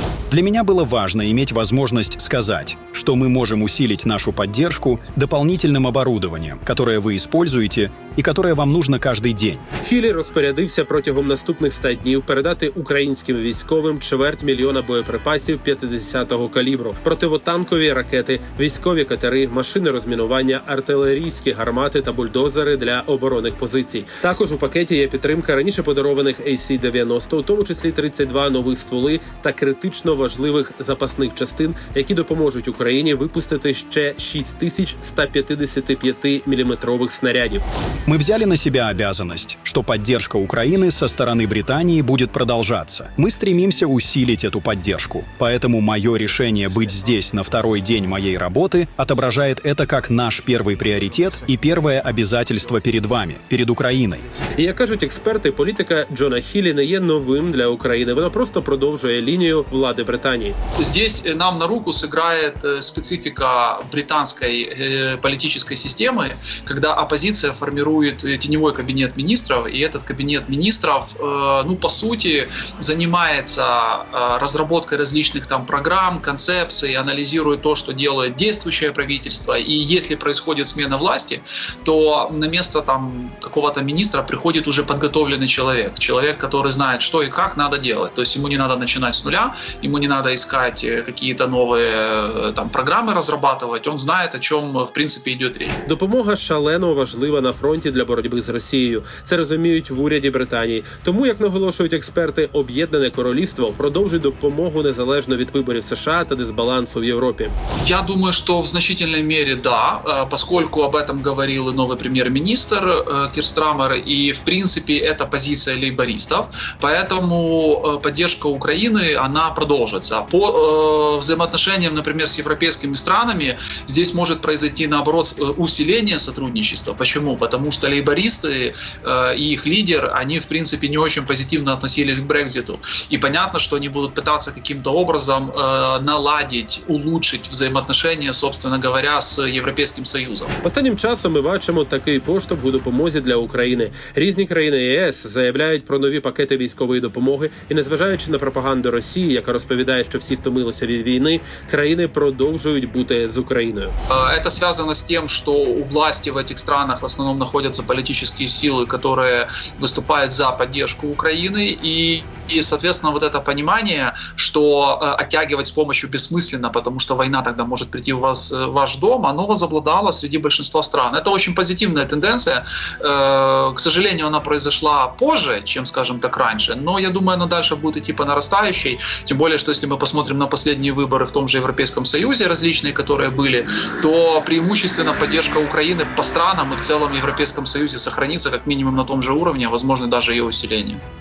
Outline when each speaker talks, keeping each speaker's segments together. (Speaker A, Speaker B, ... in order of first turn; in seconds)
Speaker A: 0.3-9.6, 38.1-54.2
Speaker B: 9.8-37.6, 54.5-60.5, 95.8-107.5, 140.6-153.9
Speaker C: 60.8-95.8, 107.8-140.5, 154.1-191.0